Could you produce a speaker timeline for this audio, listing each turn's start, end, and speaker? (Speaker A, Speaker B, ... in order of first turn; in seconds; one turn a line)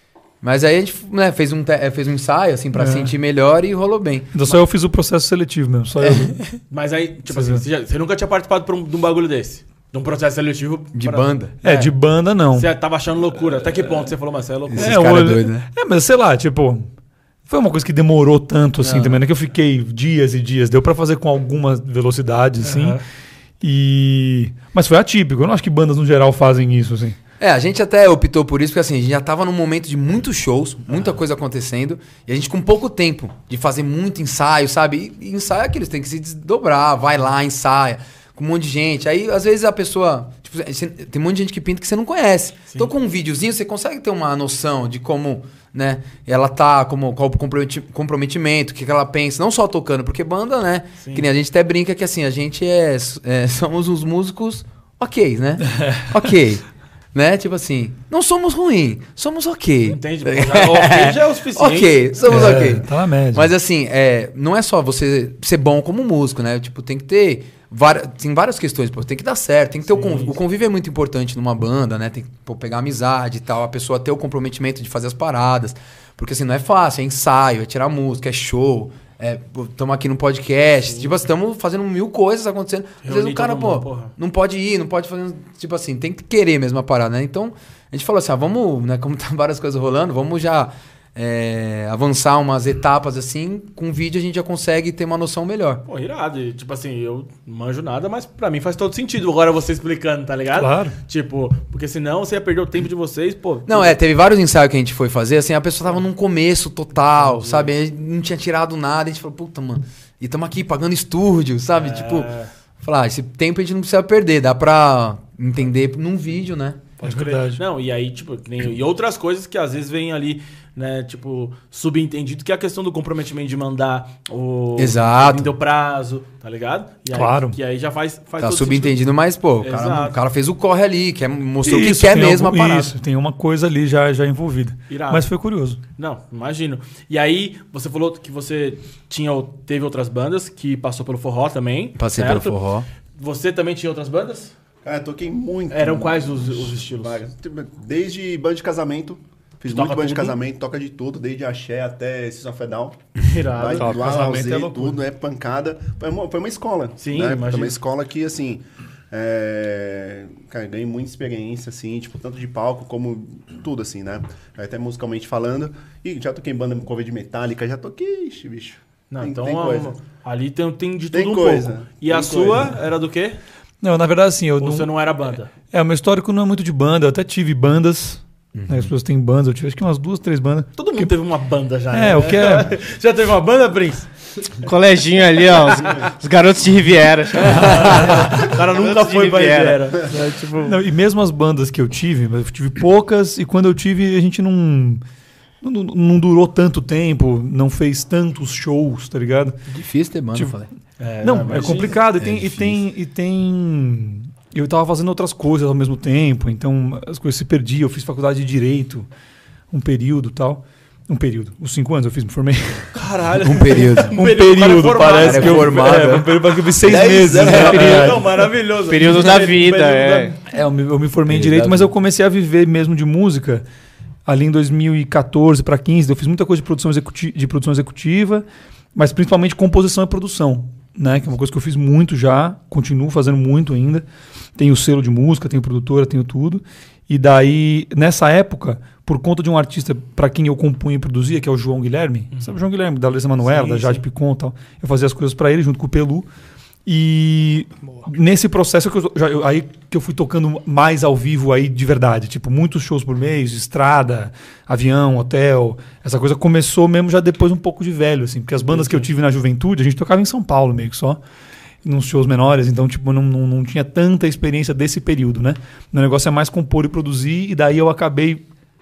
Speaker A: 0.4-4.4
Speaker B: 2.8-3.1
Speaker B: 4.3-6.5
Speaker A: 6.0-6.3
Speaker C: 6.7-11.9
Speaker B: 7.3-7.6
Speaker A: 10.9-11.5
Speaker B: 11.6-12.7
Speaker C: 12.5-15.0
Speaker A: 14.7-15.7
Speaker B: 14.8-16.9
Speaker B: 17.5-23.0
Speaker A: 18.8-19.2
Speaker C: 22.6-23.0
Speaker B: 23.6-27.2
Speaker A: 27.4-56.6
Speaker C: 51.0-51.3
Speaker B: 55.7-56.1
Speaker A: 57.1-95.8
Speaker C: 59.9-62.3
Speaker B: 62.3-63.5
Speaker C: 69.9-70.4
Speaker C: 83.0-84.1
Speaker C: 95.8-104.0
Speaker B: 100.6-101.0
Speaker A: 103.7-116.8
Speaker C: 107.2-107.7
Speaker C: 111.8-112.5
Speaker C: 117.0-129.0
Speaker B: 117.0-117.6
Speaker A: 124.8-125.5
Speaker B: 127.1-127.6
Speaker A: 128.4-132.9
Speaker C: 129.6-130.2
Speaker B: 131.6-135.8
Speaker C: 134.9-135.3
Speaker C: 136.0-142.6
Speaker A: 141.9-142.9
Speaker C: 143.2-144.5
Speaker D: 144.8-169.9
Speaker C: 145.7-147.2
Speaker C: 149.7-150.4
Speaker C: 153.2-154.2
Speaker E: 153.8-154.1
Speaker B: 153.9-155.0
Speaker C: 157.0-157.8
Speaker C: 169.1-173.4
Speaker D: 171.1-172.8
Speaker B: 173.8-174.9
Speaker C: 174.6-175.5
Speaker B: 175.7-181.1
Speaker A: 178.6-178.9
Speaker C: 180.8-184.1
Speaker B: 181.9-182.7
Speaker E: 184.6-189.8
Speaker B: 187.7-188.4
Speaker C: 187.7-190.7
Speaker B: 190.3-195.0
Speaker B: 195.6-199.6
Speaker A: 199.7-200.7
Speaker C: 201.0-202.0
Speaker B: 201.2-209.1
Speaker A: 202.2-202.8
Speaker B: 209.7-212.9
Speaker C: 212.9-216.2
Speaker A: 213.4-214.2
Speaker B: 214.2-218.3
Speaker A: 215.1-216.3
Speaker D: 216.8-218.2
Speaker C: 217.3-220.4
Speaker A: 217.4-217.8
Speaker E: 218.9-220.4
Speaker B: 220.5-223.6
Speaker A: 221.3-221.9
Speaker B: 224.3-228.4
Speaker B: 229.0-234.0
Speaker B: 234.6-246.3
Speaker C: 243.4-244.0
Speaker B: 246.9-261.2
Speaker C: 258.6-259.1
Speaker B: 261.9-268.4